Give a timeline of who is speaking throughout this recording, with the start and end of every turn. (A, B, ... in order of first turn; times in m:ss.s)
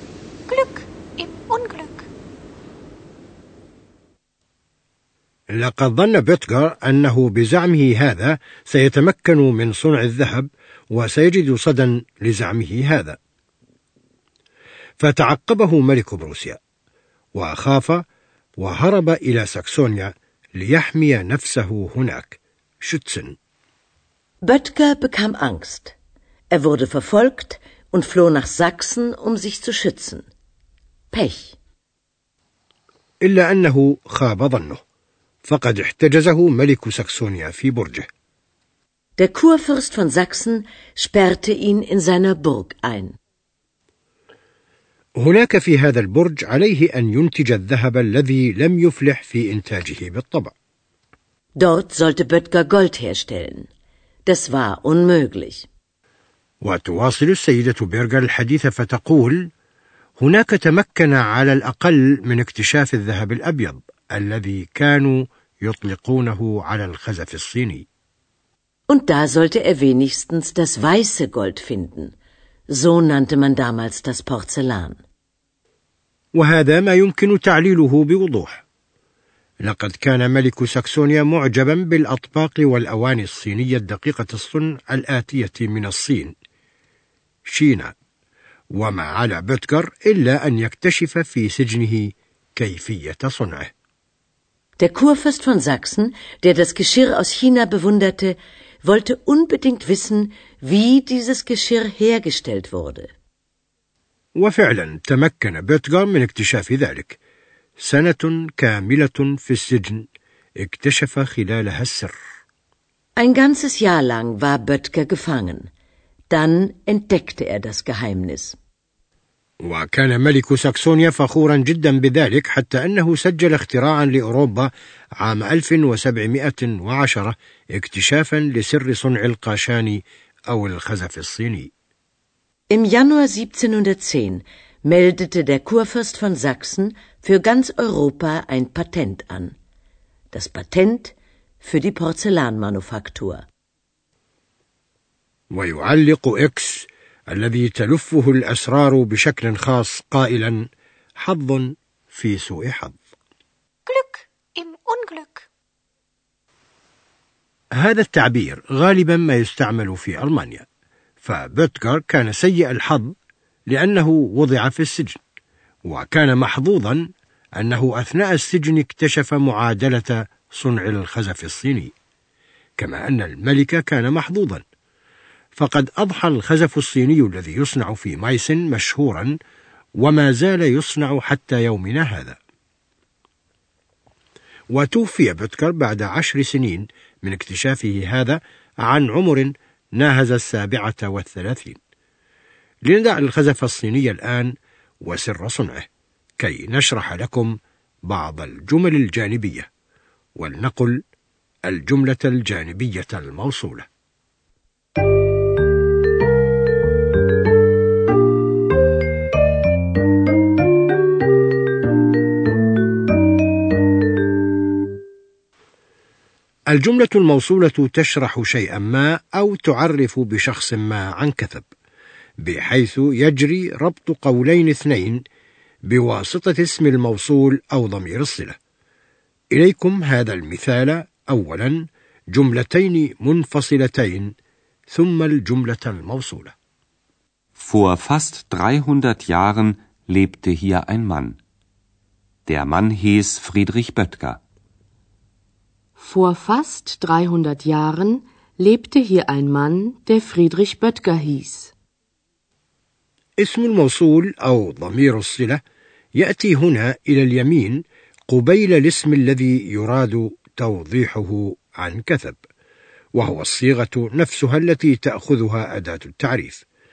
0:00.5-0:02.1 A
0:05.5-0:13.2 B
0:15.0-0:16.6 B
0:17.3-0:18.0 B
0:18.6-0:23.4 B
0:24.4-0:25.9 C
0:26.5-0:30.2 C
0:31.1-0:31.6 C
0:33.2-0:34.8 B
0:35.4-0:38.1 B
0:39.2-0:43.2 C
0:45.2-0:50.5 B
0:51.6-0:53.7 C
0:54.2-0:55.7 C
0:56.6-0:59.5 B
1:00.2-1:07.8 B
1:08.9-1:12.1 C
1:12.7-1:15.0 C
1:16.3-1:18.6 B
1:19.6-1:26.3 B
1:27.5-1:27.9 B
1:28.7-1:33.7 B
1:34.8-1:43.1 C
1:44.4-1:47.2 B
1:47.8-1:52.1 B
1:53.2-1:55.7 C
1:56.3-1:58.6 C
1:59.6-2:11.7 B
2:12.7-2:19.5 C
2:20.3-2:23.4 C
2:25.5-2:33.0 B
2:33.8-2:35.5 A
2:37.8-2:40.6 B
2:41.2-2:43.1 B
2:43.7-2:45.2 B
2:45.8-2:51.9 B
2:52.8-2:54.6 B
2:55.5-2:59.4 B
3:00.0-3:02.4 B
3:04.7-3:11.8 B
3:12.8-3:15.9 B
3:16.4-3:17.6 B
3:18.1-3:19.7 B
3:20.4-3:21.0 B
3:21.7-3:23.9 B
3:36.7-3:41.6 B
3:42.4-3:45.2 B
3:45.9-3:48.6 B
3:49.5-3:54.3 B
3:54.9-3:56.5 B
3:57.6-4:01.4 D
4:02.4-4:04.4 D
4:06.0-4:11.7 E
4:13.4-4:15.6 B
4:16.1-4:22.4 B
4:23.1-4:26.6 B